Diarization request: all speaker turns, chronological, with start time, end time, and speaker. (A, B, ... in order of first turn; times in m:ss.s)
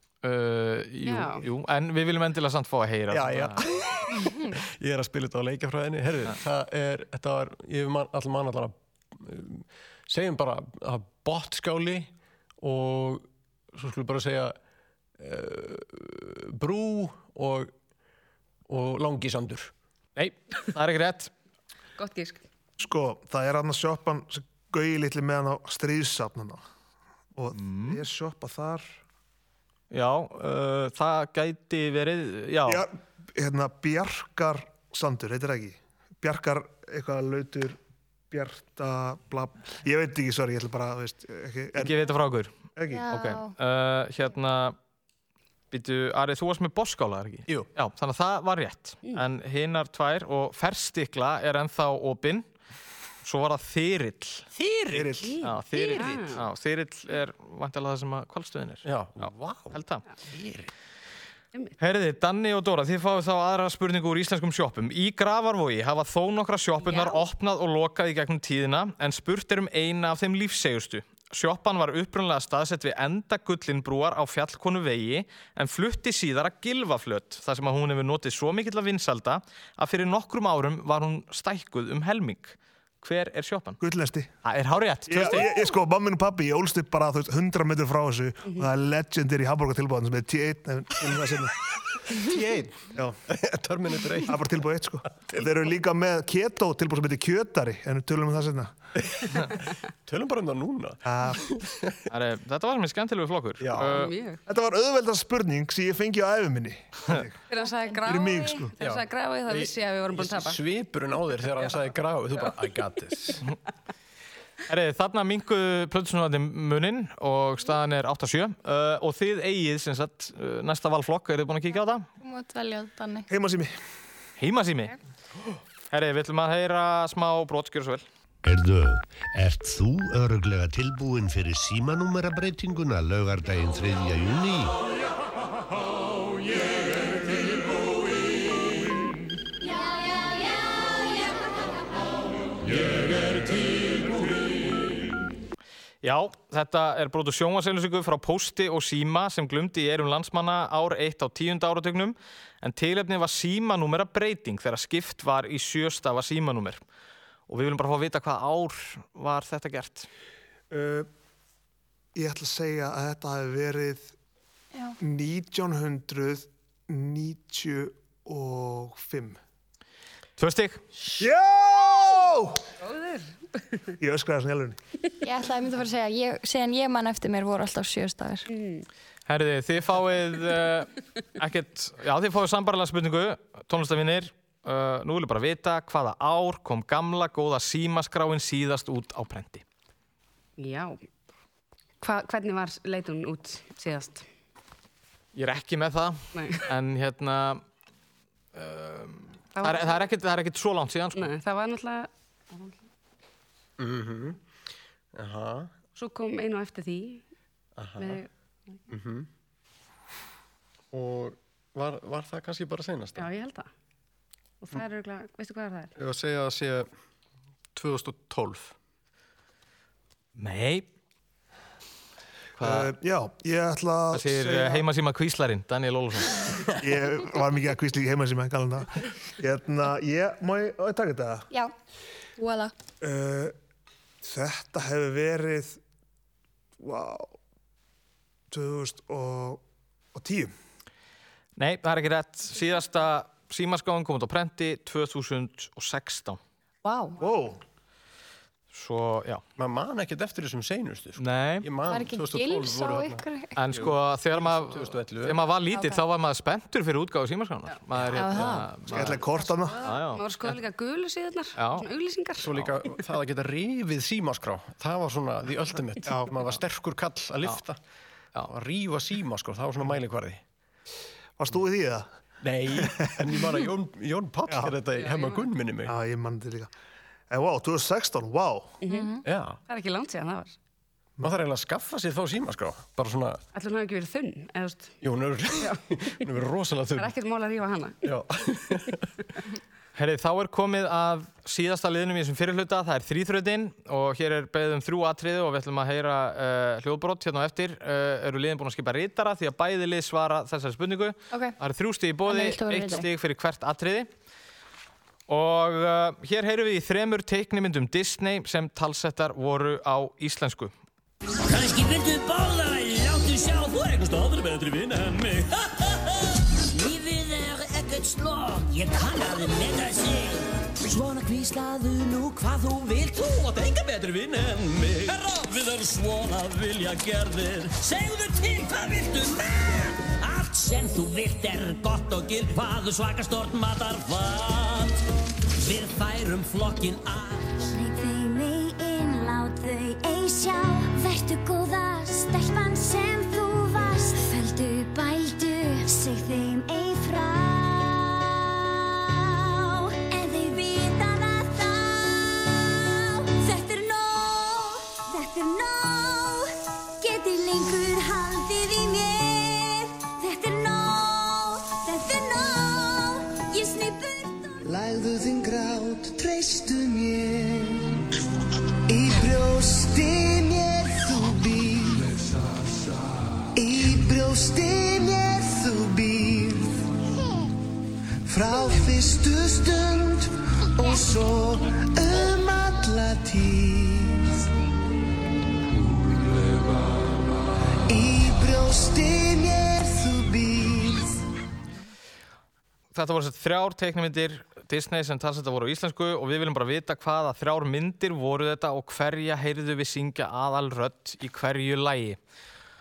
0:00.2-0:03.6 A
0:01.0-0:01.4 B
0:03.1-0:14.6 C
0:15.2-0:17.7 C
0:18.7-0:19.7 C
0:20.2-0:21.3 A
0:22.0-0:22.4 B
0:22.8-0:26.6 D
0:27.4-0:28.9 D
0:27.5-0:28.0 A
0:29.9-0:32.8 A
0:32.7-0:37.8 D
0:38.3-0:41.9 D
0:41.8-0:42.5 A
0:42.8-0:43.0 D
0:42.9-0:43.5 E
0:43.1-0:44.8 A
0:45.7-0:52.5 A
0:53.2-0:54.5 A
0:54.5-0:55.3 C
0:54.9-0:55.3 D
0:55.2-0:56.4 B
0:55.4-1:00.0 A
0:55.9-0:56.3 C
0:58.8-1:00.7 C
1:01.8-1:23.8 A
1:06.8-1:07.2 B
1:23.8-1:24.3 D
1:24.4-1:25.5 A
1:25.1-1:31.6 D
1:32.1-1:34.4 C
1:34.2-1:38.7 D
1:39.0-1:39.5 C
1:40.0-1:42.0 C
1:41.0-1:41.4 D
1:42.1-1:44.1 A
1:43.6-1:44.0 C
1:43.8-1:44.4 B
1:44.5-1:47.4 D
1:47.5-1:50.6 B
1:47.9-1:48.4 E
1:48.0-1:48.7 D
1:48.8-1:53.4 C
1:54.7-2:02.1 A
2:02.2-2:03.3 E
2:03.3-2:03.7 D
2:04.4-2:04.9 A
2:05.9-2:08.0 A
2:08.4-2:14.7 F
2:26.0-2:36.8 A
2:37.5-2:40.1 A
2:40.7-2:41.1 D
2:42.1-2:44.1 D
2:45.0-2:49.4 D
2:50.4-2:50.8 A
2:51.2-2:52.6 D
2:52.8-2:53.6 B
2:54.0-2:54.8 D
2:55.2-2:58.5 E
2:58.5-2:58.8 B
2:59.3-3:09.6 A
3:10.6-3:11.0 B
3:12.0-3:14.2 B
3:15.3-3:17.6 A
3:16.3-3:16.6 B
3:18.5-3:21.3 A
3:19.6-3:20.0 B
3:21.1-3:22.7 B
3:23.8-3:24.4 C
3:25.1-3:25.7 C
3:26.0-3:27.2 B
3:27.8-3:28.2 C
3:28.0-3:28.3 B
3:28.9-3:29.3 C
3:30.9-3:33.3 C
3:33.2-3:33.7 B
3:34.6-3:35.9 B
3:36.0-3:36.9 C
3:37.7-3:38.7 C
3:40.4-3:40.8 A
3:42.6-3:42.9 A
3:42.6-3:44.8 D
3:44.1-3:46.4 A
3:46.8-3:51.5 D
3:52.4-3:52.7 E
3:53.0-3:53.5 D
3:54.2-3:55.8 D
3:56.8-3:57.3 D
3:58.5-3:59.6 D
4:00.1-4:00.5 D
4:01.6-4:06.4 A
4:06.8-4:07.2 E
4:07.2-4:07.6 D
4:08.7-4:09.4 A
4:09.6-4:15.4 C
4:11.2-4:11.7 A
4:11.9-4:13.5 E
4:13.5-4:19.2 A
4:15.7-4:16.0 E
4:18.1-4:18.7 E
4:18.9-4:19.8 D
4:19.6-4:22.5 B
4:19.8-4:20.5 A
4:21.6-4:21.8 A
4:22.4-4:27.8 C
4:28.5-4:30.4 C
4:31.4-4:32.0 D
4:32.4-4:35.9 C
4:32.8-4:33.1 D
4:35.0-4:35.4 B
4:35.8-4:36.7 D
4:37.3-4:38.8 D
4:38.8-4:39.1 B
4:38.9-4:39.2 E
4:39.2-4:39.6 C
4:39.7-4:40.6 B
4:41.2-4:43.4 C
4:43.5-4:45.0 B
4:45.0-4:47.1 C
4:47.0-4:48.0 B
4:48.0-4:49.0 C
4:50.0-5:04.1 A
5:02.2-5:03.1 E
5:05.3-5:10.7 A
5:11.4-5:35.0 G
5:35.6-5:37.5 G
5:37.6-6:04.6 H
6:04.6-6:07.9 I
6:08.9-6:12.1 I
6:13.5-6:16.8 I
6:18.2-6:24.4 I
6:27.9-6:31.1 I
6:32.9-6:42.2 A